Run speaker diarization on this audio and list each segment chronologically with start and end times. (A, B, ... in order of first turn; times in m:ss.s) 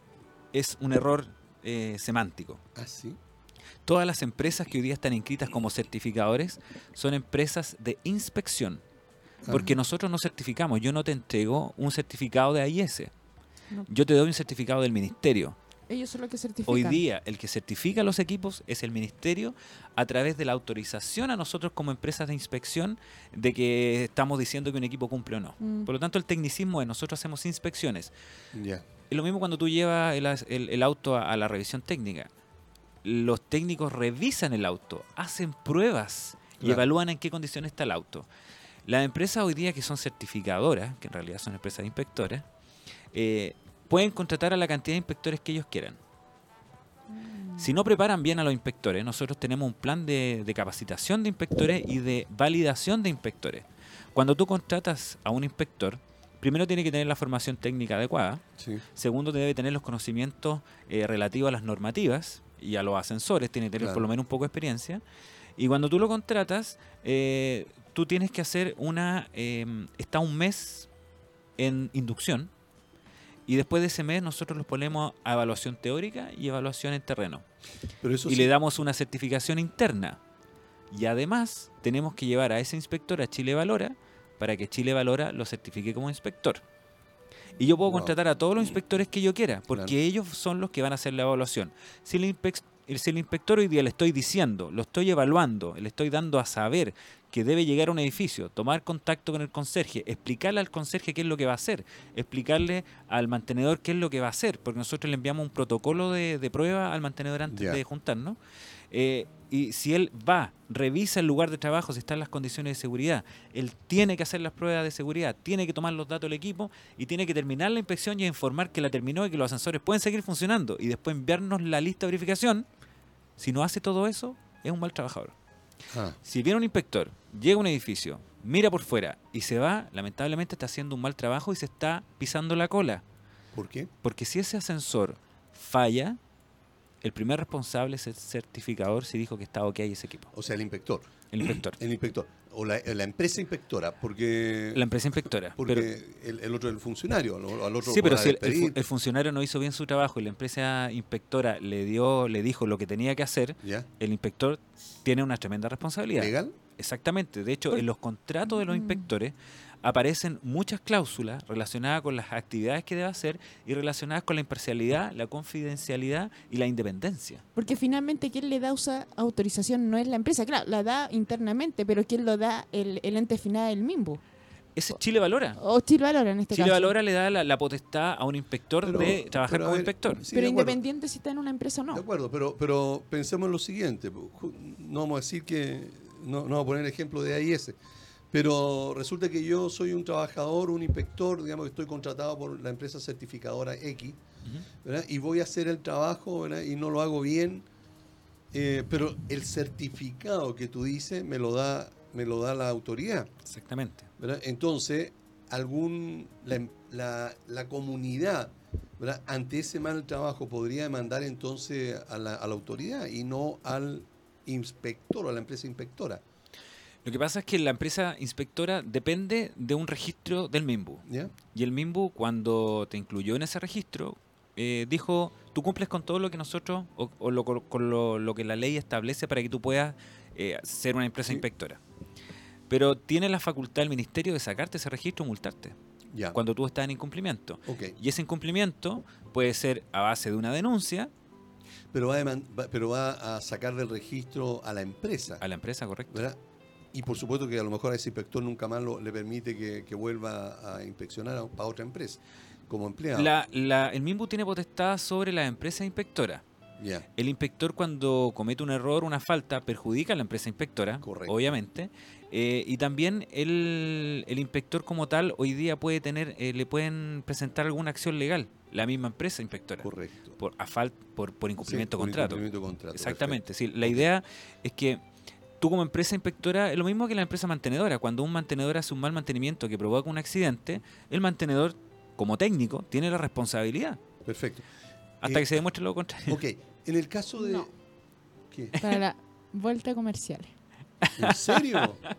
0:00.5-0:02.6 A
0:02.8-0:03.2 B
0:03.9-0:08.8 A
0:09.4-0:09.7 B
0:09.5-0:13.1 A
0:13.9-0:15.6 A
0:15.9-0:17.0 C
0:16.7-0:28.1 A
0:25.6-0:25.9 C
0:28.5-0:28.8 B
0:29.1-0:32.3 A
0:33.0-0:38.3 A
0:38.9-0:42.4 A
0:43.1-0:46.0 A
0:47.1-0:47.7 C
0:47.6-0:58.4 A
0:59.0-1:05.0 A
1:03.8-1:04.0 B
1:05.6-1:10.9 A
1:11.6-1:12.5 A
1:13.5-1:17.4 A
1:18.0-1:18.5 B
1:18.3-1:20.2 A
1:20.9-1:26.6 A
1:27.6-1:48.4 A
1:27.9-1:28.2 B
1:47.5-1:47.8 B
1:48.9-2:02.7 A
2:03.4-2:05.3 A
2:05.9-2:06.2 B
2:06.2-2:13.0 A
2:13.5-2:13.9 B
2:14.0-2:16.2 A
2:17.0-2:20.3 A
2:20.3-2:24.8 B
2:21.3-2:21.8 A
2:24.8-2:25.9 A
2:25.6-2:28.8 B
2:27.8-2:47.4 A
2:36.2-2:36.6 B
2:38.7-2:39.0 C
2:47.6-2:54.2 C
2:54.8-2:55.6 A
2:55.6-2:57.0 C
2:56.5-3:00.2 A
2:58.8-3:00.8 B
3:00.3-3:02.0 C
3:01.9-3:07.8 B
3:08.3-3:14.2 B
3:14.8-3:17.7 B
3:18.5-3:23.3 B
3:23.4-3:24.0 A
3:24.2-3:36.2 B
3:37.0-3:51.8 A
3:41.1-3:41.3 B
3:52.7-3:55.8 A
3:56.3-4:01.1 A
3:57.7-3:57.9 B
4:01.9-4:05.4 B
4:05.4-4:06.2 A
4:06.1-4:06.4 B
4:06.9-4:13.3 B
4:13.2-4:16.4 A
4:16.8-4:17.0 B
4:17.2-4:35.0 A
4:21.0-4:21.5 B
4:29.8-4:30.3 B
4:31.6-4:34.1 B
4:35.6-4:44.0 A
4:44.3-4:44.6 B
4:45.2-4:46.4 A
4:46.3-4:47.7 B
4:47.4-4:47.7 C
4:48.5-4:48.8 B
4:48.8-4:50.5 C
4:51.0-4:51.8 A
4:51.2-4:52.0 B